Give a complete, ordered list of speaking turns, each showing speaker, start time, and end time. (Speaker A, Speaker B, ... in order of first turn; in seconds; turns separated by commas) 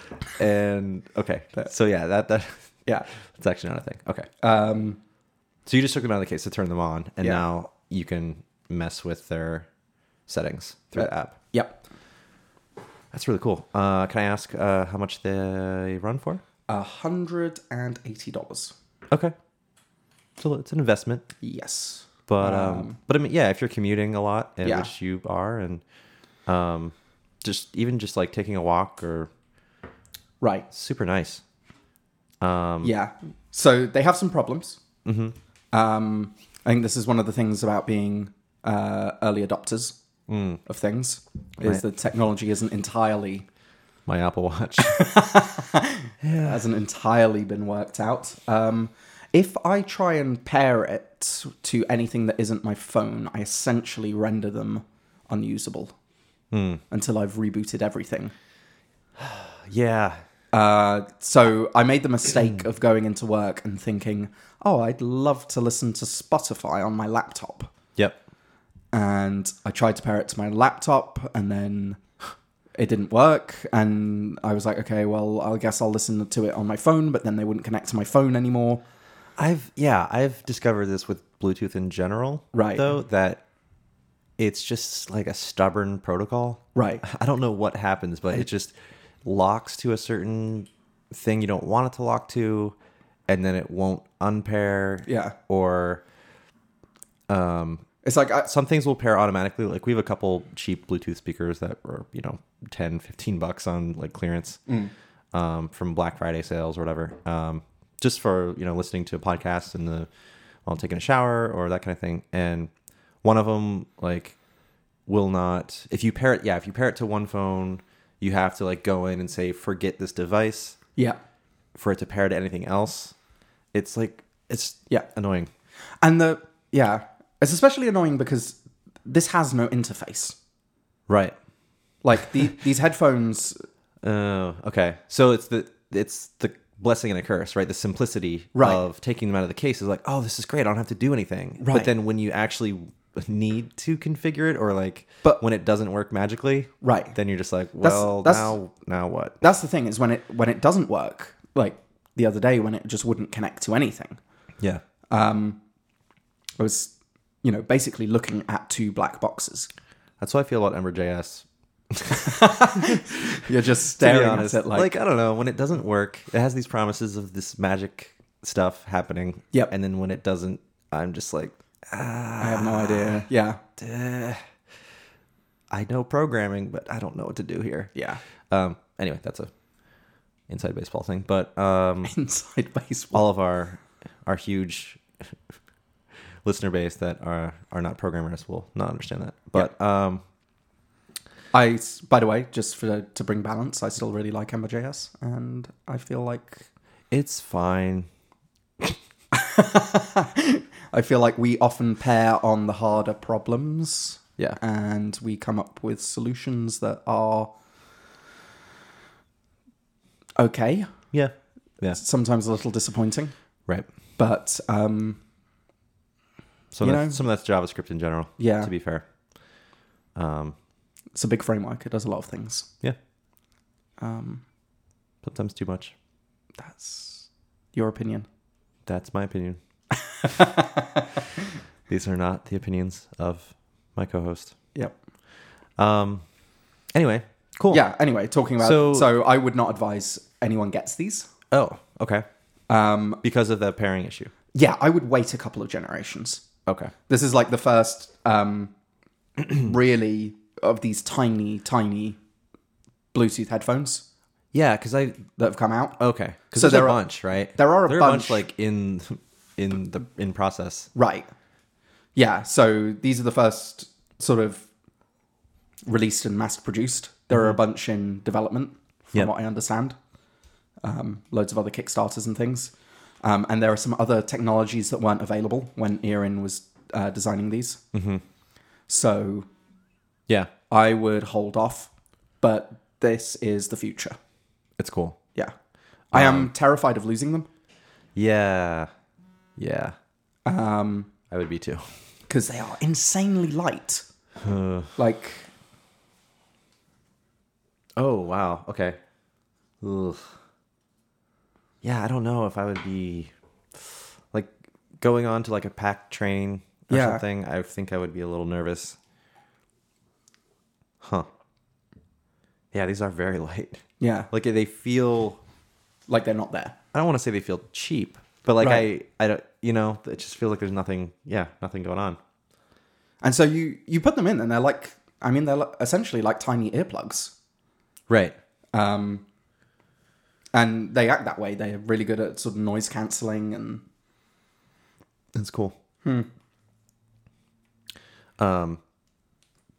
Speaker A: 0.2-2.7, Speaker A: 3.3-4.3, Speaker B: 4.4-5.0, Speaker A: 5.7-9.7, Speaker A: 10.3-11.4, Speaker B: 11.0-11.8, Speaker A: 13.1-16.4, Speaker B: 16.7-18.7, Speaker A: 19.1-19.4, Speaker A: 20.4-21.3, Speaker B: 21.4-23.0, Speaker A: 22.3-25.8, Speaker B: 24.6-24.9, Speaker A: 26.5-29.3, Speaker B: 30.4-30.7, Speaker A: 30.7-31.4, Speaker A: 32.4-32.9, Speaker B: 32.8-34.8, Speaker A: 35.0-35.4, Speaker B: 35.7-40.0, Speaker A: 40.3-40.6, Speaker B: 40.7-43.5, Speaker A: 44.1-45.1, Speaker B: 44.8-55.9, Speaker A: 46.2-46.6, Speaker A: 56.5-56.8, Speaker B: 56.9-58.3, Speaker A: 59.2-60.2, Speaker B: 60.5-67.7, Speaker B: 68.9-72.0, Speaker B: 72.8-78.8, Speaker A: 79.4-83.4, Speaker B: 82.5-82.9, Speaker A: 84.4-92.8, Speaker B: 86.8-87.0, Speaker A: 93.3-96.0, Speaker B: 95.1-95.4, Speaker A: 97.3-97.8, Speaker B: 98.0-98.5, Speaker A: 98.5-104.6, Speaker B: 104.7-104.9, Speaker A: 105.3-110.1, Speaker A: 110.7-112.7, Speaker A: 113.2-114.4, Speaker A: 115.1-120.8, Speaker A: 121.8-123.2, Speaker A: 123.7-125.5, Speaker B: 126.0-130.4, Speaker A: 131.1-131.4, Speaker B: 132.0-133.6, Speaker A: 134.0-149.4, Speaker B: 138.6-138.8, Speaker B: 141.6-141.9, Speaker B: 146.8-147.2, Speaker B: 147.8-148.6, Speaker B: 149.4-154.2, Speaker B: 155.1-155.6, Speaker B: 156.6-159.7, Speaker A: 160.2-174.4, Speaker B: 162.2-164.9, Speaker B: 172.4-173.6, Speaker A: 175.7-177.9, Speaker B: 177.9-178.2, Speaker A: 178.5-179.5, Speaker A: 180.5-182.1, Speaker B: 182.0-183.3, Speaker A: 183.1-185.3, Speaker A: 186.4-190.2, Speaker B: 191.5-196.7, Speaker A: 197.1-198.1, Speaker B: 199.3-207.5, Speaker B: 210.4-211.0, Speaker A: 211.1-212.0, Speaker B: 211.9-213.3, Speaker B: 214.2-215.2, Speaker A: 216.7-219.1, Speaker B: 216.8-217.2, Speaker B: 218.4-218.7, Speaker A: 220.2-220.6, Speaker B: 221.2-222.7, Speaker B: 224.0-224.4, Speaker A: 225.2-225.9, Speaker B: 226.6-228.3, Speaker A: 228.9-229.6, Speaker B: 230.1-231.2, Speaker A: 231.9-234.5, Speaker A: 235.8-236.2, Speaker A: 236.9-237.8, Speaker B: 237.7-241.3, Speaker A: 238.6-239.1, Speaker A: 241.5-242.3, Speaker B: 242.7-243.2, Speaker A: 243.2-244.3, Speaker B: 244.5-246.4, Speaker A: 246.7-246.9, Speaker B: 247.1-248.7, Speaker B: 249.5-252.2, Speaker B: 253.1-254.1, Speaker A: 254.5-255.3, Speaker B: 255.4-256.0, Speaker A: 256.0-260.9, Speaker B: 256.5-258.4, Speaker B: 260.9-261.3, Speaker B: 262.1-264.7, Speaker B: 265.9-270.0, Speaker B: 270.8-272.7, Speaker B: 273.2-277.8, Speaker A: 277.9-278.2, Speaker B: 278.9-279.5, Speaker B: 280.7-284.2, Speaker A: 284.8-285.2, Speaker A: 286.1-286.5, Speaker B: 286.1-287.5, Speaker A: 288.1-288.9, Speaker A: 289.6-290.0, Speaker B: 290.5-291.1, Speaker A: 291.3-291.9, Speaker B: 292.3-294.1, Speaker A: 294.4-294.9, Speaker B: 295.0-295.5, Speaker A: 298.0-299.0, Speaker A: 299.8-300.3, Speaker A: 301.8-309.0, Speaker B: 306.9-307.2, Speaker A: 311.0-311.3, Speaker A: 312.7-315.4, Speaker B: 314.0-314.3, Speaker B: 316.1-316.8, Speaker A: 316.9-322.2, Speaker B: 318.6-318.9, Speaker B: 323.2-327.3, Speaker A: 328.1-328.4, Speaker B: 328.7-329.2, Speaker B: 330.5-333.8, Speaker A: 335.3-335.8, Speaker A: 338.4-338.8